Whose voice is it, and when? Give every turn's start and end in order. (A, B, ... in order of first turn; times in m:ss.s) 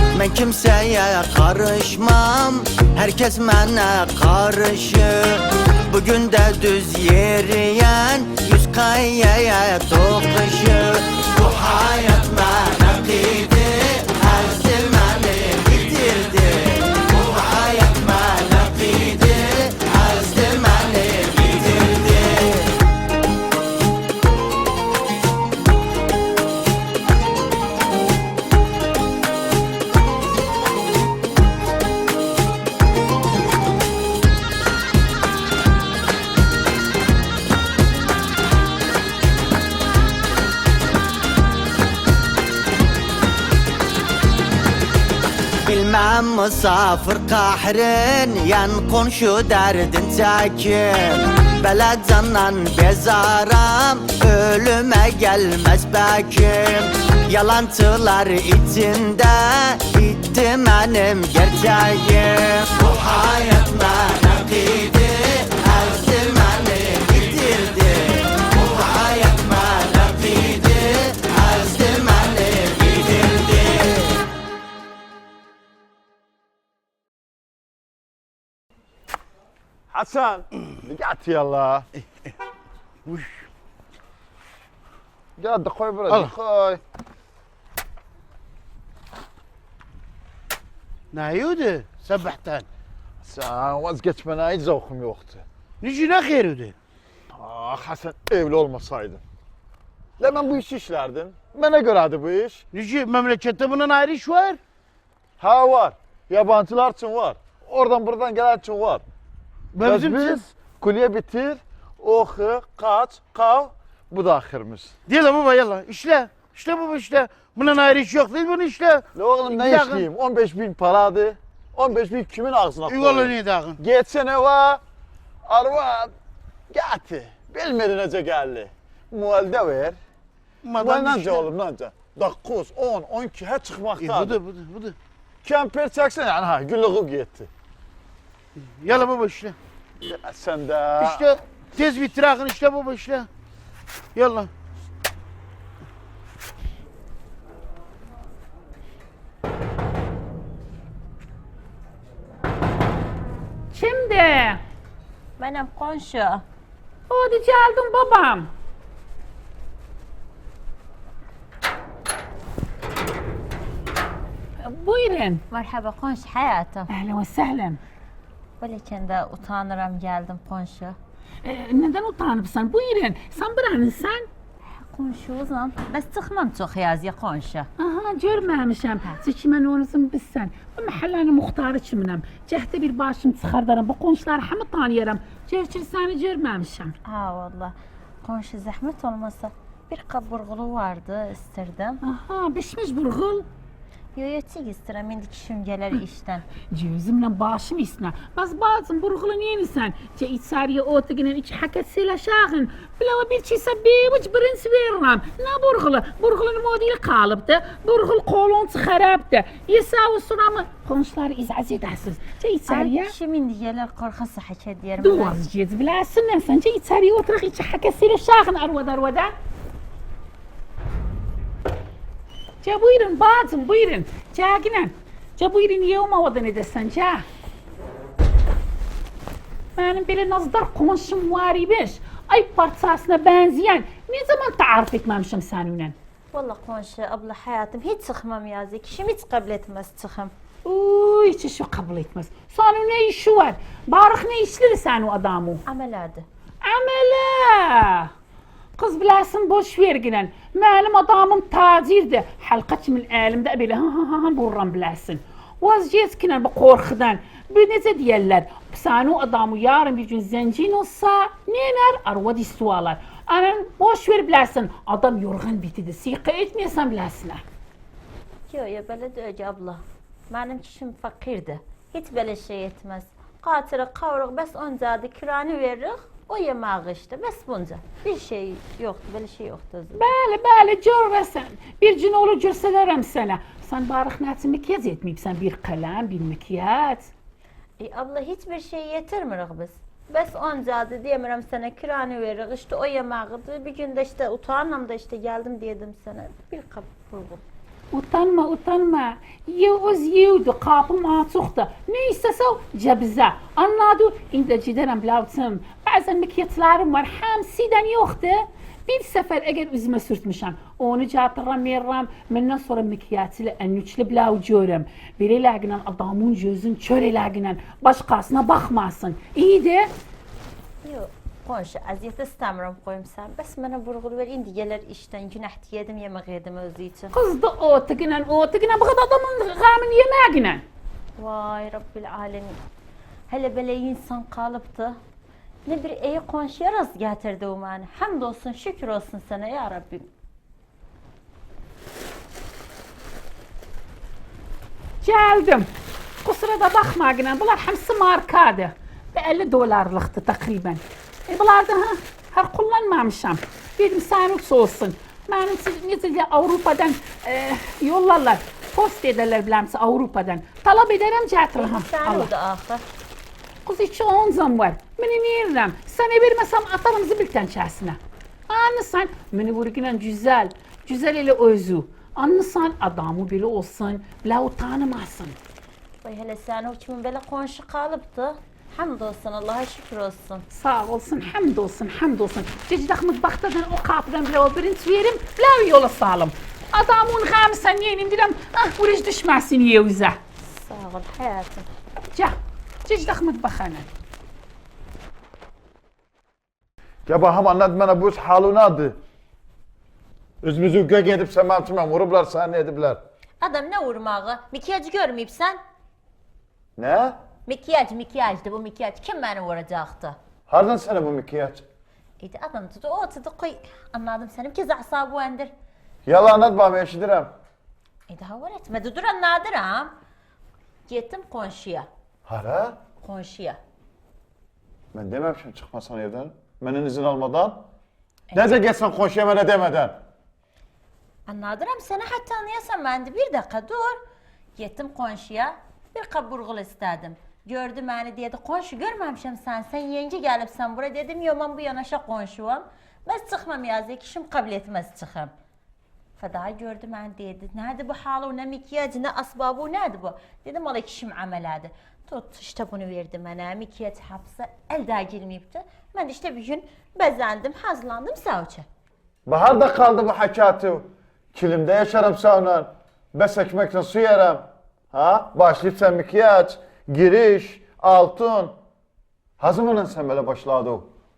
0:00.1-0:22.5 A
0:45.6-1:13.8 A
1:19.9-1:21.9 B
1:23.0-1:23.4 C
1:25.4-1:26.8 B
1:26.1-1:26.3 C
1:31.1-1:32.7 C
1:33.2-1:35.4 B
1:35.8-1:36.8 C
1:37.3-1:39.2 B
1:40.2-1:42.6 B
1:42.7-1:44.6 C
1:45.4-1:49.0 B
1:49.7-1:50.4 C
1:49.8-1:55.0 B
1:55.1-2:00.0 C
1:59.1-2:04.8 B
2:02.9-2:03.8 C
2:05.4-2:06.1 B
2:06.7-2:10.0 B
2:10.6-2:11.4 C
2:10.8-2:14.4 B
2:14.0-2:15.0 C
2:15.4-2:17.5 B
2:18.6-2:19.6 C
2:20.0-2:21.4 B
2:21.0-2:23.3 C
2:24.1-2:24.5 C
2:33.7-2:34.6 D
2:35.4-2:36.4 E
2:37.1-2:38.5 D
2:44.6-2:45.4 D
2:45.5-2:46.9 E
2:46.9-2:47.8 D
2:48.6-2:51.0 E
2:51.4-2:54.2 D
2:54.9-2:57.7 E
2:57.8-3:07.0 D
3:07.0-3:12.0 E
3:12.0-3:13.4 D
3:14.2-3:16.5 E
3:16.7-3:33.1 D
3:32.7-3:35.4 E
3:35.0-3:39.3 D
3:42.6-3:47.2 D
3:49.8-3:55.9 D
3:56.3-4:00.3 E
4:00.6-4:05.6 D
4:05.7-4:06.2 E
4:06.6-4:08.1 D
4:08.8-4:27.4 D
4:28.5-4:40.0 E
4:40.0-4:47.1 D
4:47.8-4:57.4 E
4:57.9-5:19.9 D
5:20.8-5:27.1 E
5:27.1-5:30.6 D
5:31.2-5:32.6 E
5:33.3-5:35.0 E
5:35.6-5:40.1 E
5:45.0-5:45.7 D
5:46.2-6:02.3 D
6:01.6-6:02.8 E
6:03.6-6:08.0 D
6:08.5-6:15.4 D
6:16.0-6:20.4 E
6:20.5-6:30.2 D
6:30.4-6:31.7 E
6:32.1-6:33.9 D
6:37.0-6:39.0 B
6:40.4-6:43.0 B
6:43.4-6:45.6 E
6:46.8-6:47.2 B
6:47.4-6:50.2 E
6:50.5-6:51.6 B
6:52.2-6:55.5 E
6:56.0-6:57.3 B
6:58.1-6:59.9 E
7:00.9-7:01.9 E
7:02.2-7:02.8 B
7:03.0-7:03.6 E
7:04.9-7:07.6 B
7:08.3-7:08.6 E
7:08.3-7:10.0 B
7:11.2-7:14.0 E
7:14.6-7:25.3 E
7:26.2-7:38.6 E
7:39.2-7:48.5 B
7:49.4-7:50.9 B